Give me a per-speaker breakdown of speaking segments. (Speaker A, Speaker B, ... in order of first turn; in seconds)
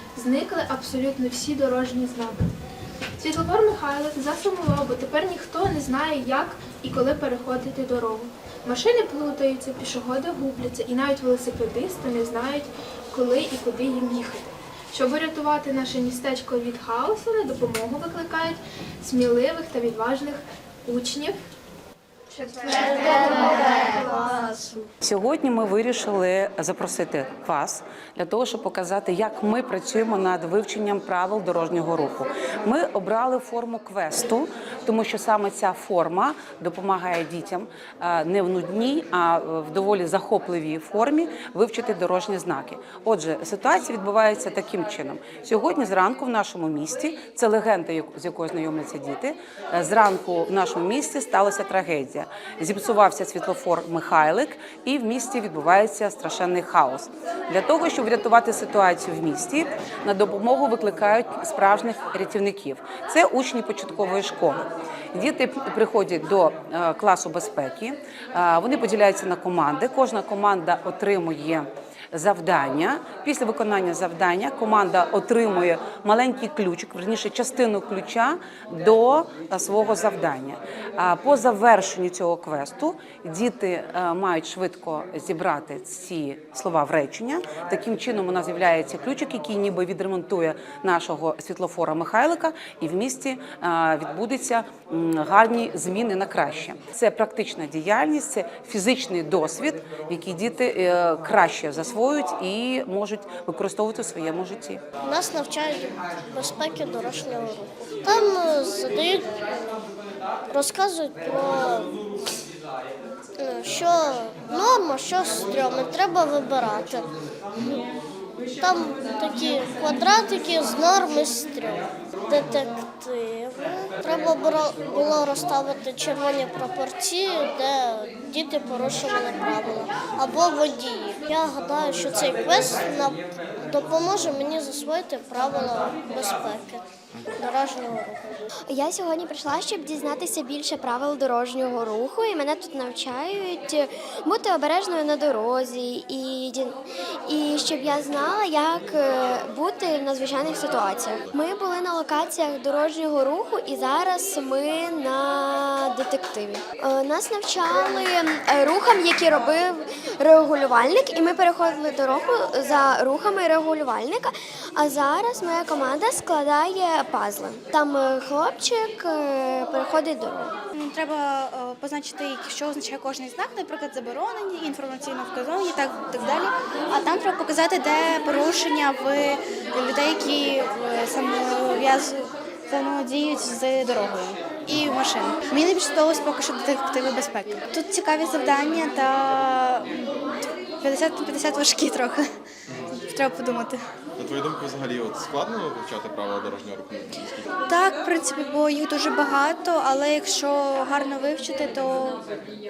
Speaker A: 0.1-2.4, 3.2-21.4
Speaker B: 22.8-24.0, 105.0-109.8, 110.5-112.0, 113.4-117.1, 118.6-136.8, 137.4-138.4
Speaker C: 25.0-104.8
Speaker D: 138.7-170.5
Speaker E: 170.7-190.2, 190.8-192.2, 192.9-193.8, 197.7-202.2
Speaker F: 184.7-185.0, 194.2-197.4